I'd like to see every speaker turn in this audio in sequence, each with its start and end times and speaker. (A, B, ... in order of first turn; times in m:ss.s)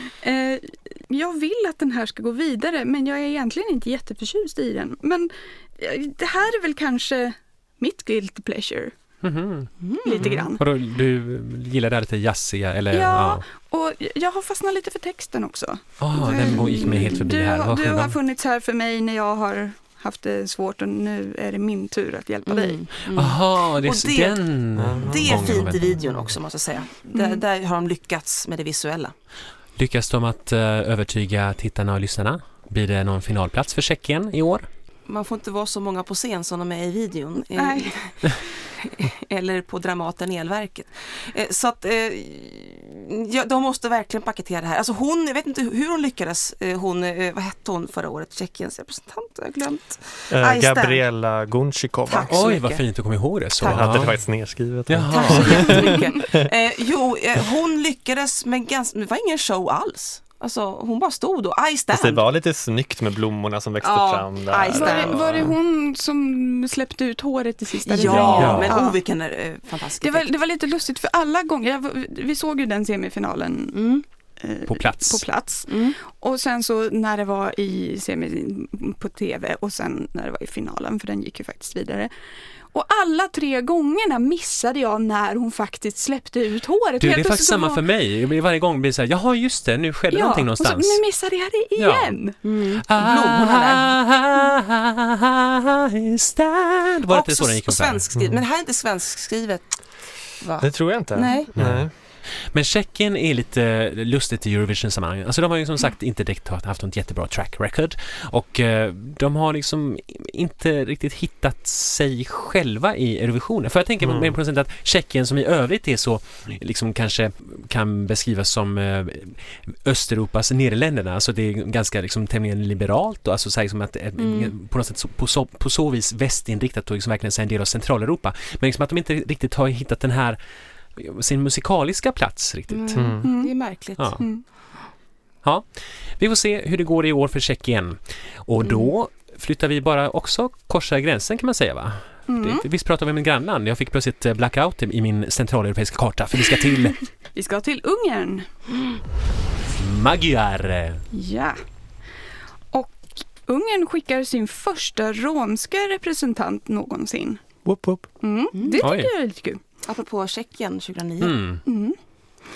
0:00.2-0:08.9 A
0:09.2-0:13.4 B
0:09.8-0:10.3 C
0:10.0-0:10.6 A
0:12.9-0:22.8 A
0:16.0-0:18.1 B
0:16.7-0:17.1 C
0:22.5-0:24.4 C
0:23.1-0:26.3 B
0:24.8-0:26.0 D
0:25.0-0:29.1 C
0:27.1-0:27.4 A
0:29.8-0:34.7 B
0:35.1-0:51.0 C
0:37.6-0:38.0 A
0:50.3-0:52.4 D
0:52.1-0:52.8 C
0:52.3-0:54.1 B
0:53.6-0:54.0 C
0:53.6-0:56.5 D
0:54.9-0:55.9 B
0:55.1-1:02.2 C
0:55.6-0:56.2 A
1:01.9-1:05.5 D
1:03.8-1:05.5 C
1:04.7-1:09.0 A
1:07.8-1:10.3 C
1:08.0-1:08.8 B
1:08.2-1:08.5 D
1:10.0-1:13.9 A
1:13.7-1:14.0 C
1:14.4-1:22.1 A
1:14.7-1:15.2 B
1:15.7-1:16.0 C
1:22.7-1:27.8 A
1:27.0-1:31.0 B
1:30.1-1:32.4 A
1:31.8-1:32.2 B
1:32.4-1:34.0 C
1:32.8-1:38.2 B
1:37.1-1:39.7 C
1:38.1-1:38.4 D
1:40.4-1:41.5 C
1:40.6-1:41.9 D
1:41.6-1:41.9 B
1:42.5-2:10.4 B
1:54.0-1:54.4 D
2:04.2-2:04.5 C
2:11.0-2:13.1 B
2:12.7-2:14.2 C
2:12.9-2:13.3 D
2:13.2-2:13.5 A
2:14.2-2:14.4 A
2:16.2-2:27.0 B
2:18.6-2:18.9 C
2:22.3-2:22.6 A
2:27.3-2:28.5 A
2:29.8-2:31.0 B
2:31.1-2:31.6 A
2:32.7-2:37.4 A
2:37.6-2:38.1 D
2:38.2-2:39.6 A
2:38.6-2:38.9 C
2:38.8-2:39.1 B
2:39.8-2:41.4 C
2:41.2-2:41.6 B
2:41.6-2:42.0 A